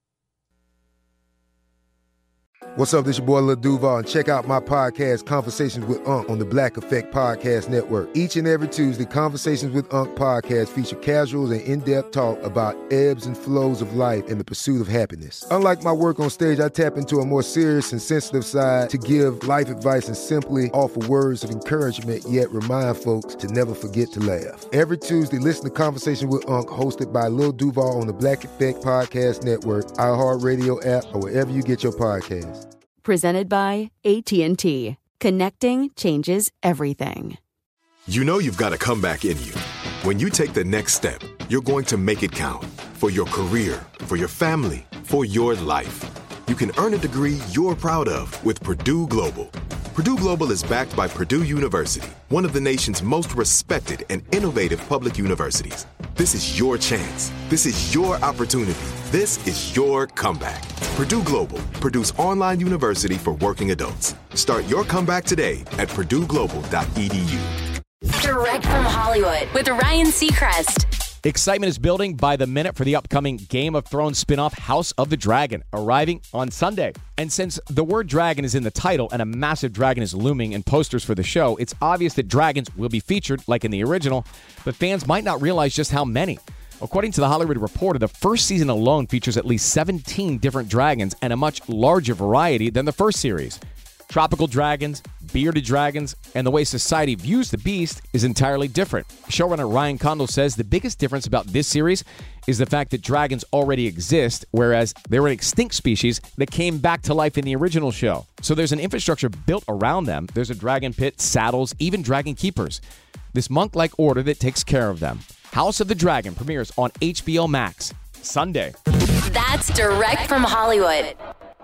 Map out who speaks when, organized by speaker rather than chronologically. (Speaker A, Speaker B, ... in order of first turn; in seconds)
Speaker A: 2.8-32.6
Speaker B: 33.0-37.4
Speaker C: 38.1-67.5
Speaker D: 68.1-70.9, 119.2-121.2
Speaker E: 71.2-93.6, 94.1-112.8, 113.3-118.7